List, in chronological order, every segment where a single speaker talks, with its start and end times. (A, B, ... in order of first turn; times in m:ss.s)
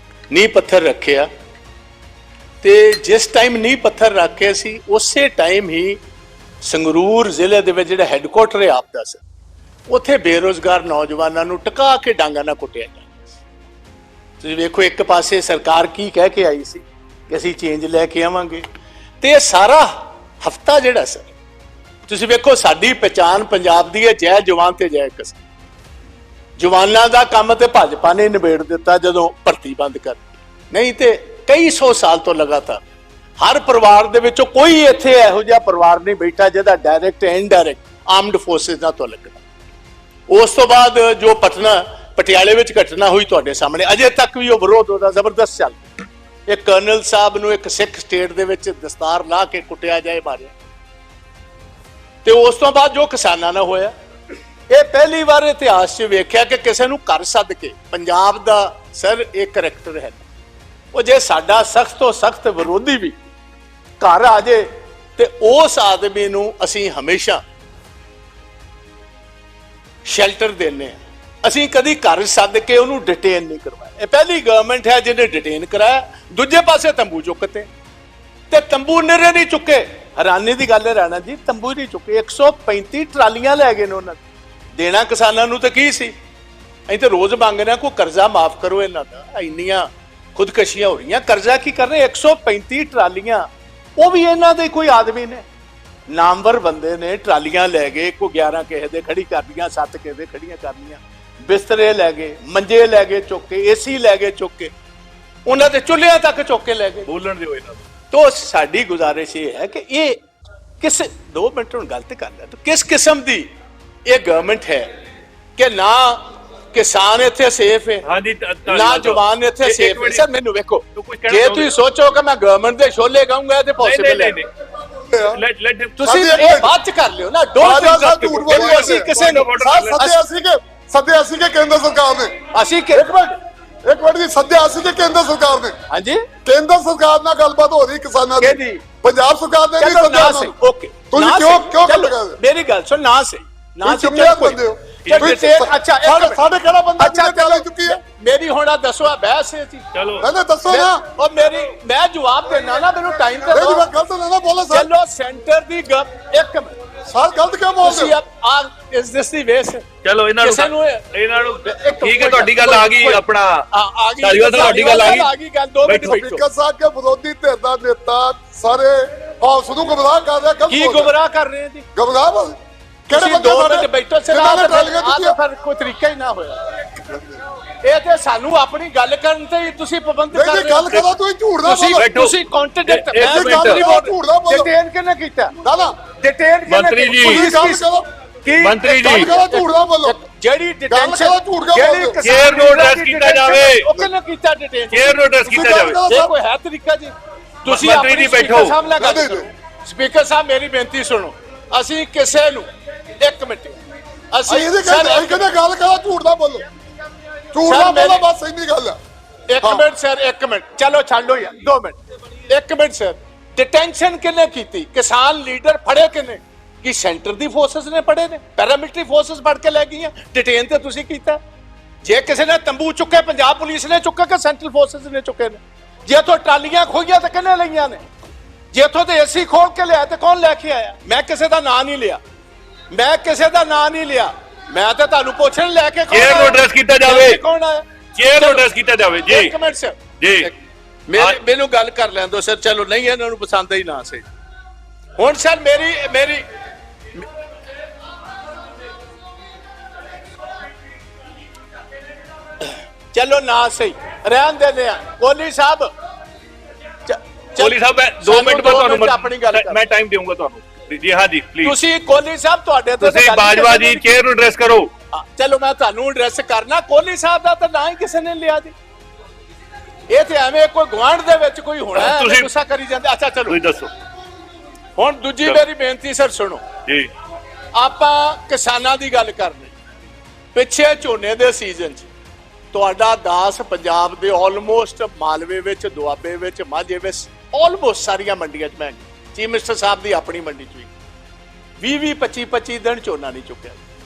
0:00.3-0:01.3 A
0:02.6-0:06.0 A
0:06.6-0:09.2 A
0:09.9-0:13.4 A
0:14.4-0:18.6 A
0:19.2-0:21.3 A
0:22.0-0:25.4 A
0:26.6-0:32.8 A
0:33.4-0:39.4 A
0:40.3-0:45.9 A
0:46.5-0:50.5 A
0:52.2-0:53.9 A
0:54.7-1:00.2 A
1:00.9-1:03.1 A
1:04.0-1:07.4 A
1:10.0-1:17.7 A
1:18.5-1:24.2 A
1:24.8-1:26.1 A
1:26.9-1:35.4 A
1:36.1-1:44.7 A
1:45.4-1:47.1 A
1:47.1-1:47.8 B
1:48.1-1:50.2 A
1:50.8-1:53.5 A
1:54.1-1:54.9 A
1:55.6-1:58.1 A
1:58.0-2:00.2 B
1:58.7-2:04.4 A
2:00.9-2:01.7 B
2:03.8-2:04.5 B
2:05.1-2:05.4 C
2:05.3-2:06.0 B
2:06.0-2:10.2 A
2:06.0-2:06.7 C
2:07.6-2:12.4 C
2:08.5-2:10.0 B
2:12.5-2:13.3 A
2:12.9-2:13.3 C
2:13.8-2:15.8 C
2:15.9-2:16.2 A
2:16.4-2:20.6 C
2:18.4-2:18.8 A
2:19.8-2:26.4 A
2:21.1-2:22.4 C
2:23.8-2:28.0 C
2:25.0-2:25.3 B
2:27.0-2:29.8 A
2:29.9-2:30.3 B
2:30.2-2:31.0 C
2:30.7-2:33.9 A
2:33.5-2:34.9 C
2:34.7-2:36.7 A
2:37.1-2:38.1 C
2:37.8-2:41.1 A
2:40.0-2:43.6 B
2:41.6-2:46.4 A
2:44.2-2:45.3 B
2:45.8-2:46.2 B
2:46.0-2:51.1 C
2:50.7-2:51.8 A
2:52.0-2:52.6 C
2:53.1-2:55.4 C
2:53.1-2:56.6 A
2:57.0-2:57.4 C
2:57.8-3:01.1 A
3:00.3-3:02.1 C
3:01.6-3:05.5 A
3:01.9-3:02.3 B
3:02.9-3:03.9 B
3:03.2-3:04.7 C
3:05.6-3:05.9 C
3:06.2-3:07.9 A
3:06.7-3:07.5 B
3:07.2-3:08.0 C
3:08.4-3:15.2 A
3:08.6-3:09.3 B
3:09.1-3:10.2 C
3:10.9-3:12.2 C
3:12.2-3:13.9 B
3:14.9-3:16.1 B
3:15.4-3:16.3 C
3:16.1-3:17.1 A
3:17.6-3:22.6 A
3:17.6-3:18.8 B
3:19.0-3:19.4 C
3:23.2-3:23.8 A
3:24.3-3:25.4 A
3:24.5-3:26.7 C
3:27.5-3:29.0 C
3:27.6-3:28.2 A
3:29.5-3:41.4 A
3:42.0-3:48.0 A
3:48.7-3:52.2 A
3:52.9-3:58.7 A
3:56.1-3:57.4 B
3:58.1-3:59.5 B
3:59.2-4:00.5 A
4:00.2-4:00.5 B
4:01.1-4:04.3 A
4:05.2-4:06.4 A
4:12.6-4:15.9 A
4:17.1-4:19.8 A
4:17.6-4:21.8 B
4:21.6-4:24.2 A
4:23.0-4:24.9 B
4:25.1-4:28.7 A
4:30.1-4:33.6 A
4:31.9-4:32.5 B
4:33.5-4:33.9 B
4:35.0-4:36.6 A
4:37.7-4:39.8 A
4:40.5-4:42.1 A
4:42.7-4:50.9 A
4:51.8-4:53.8 A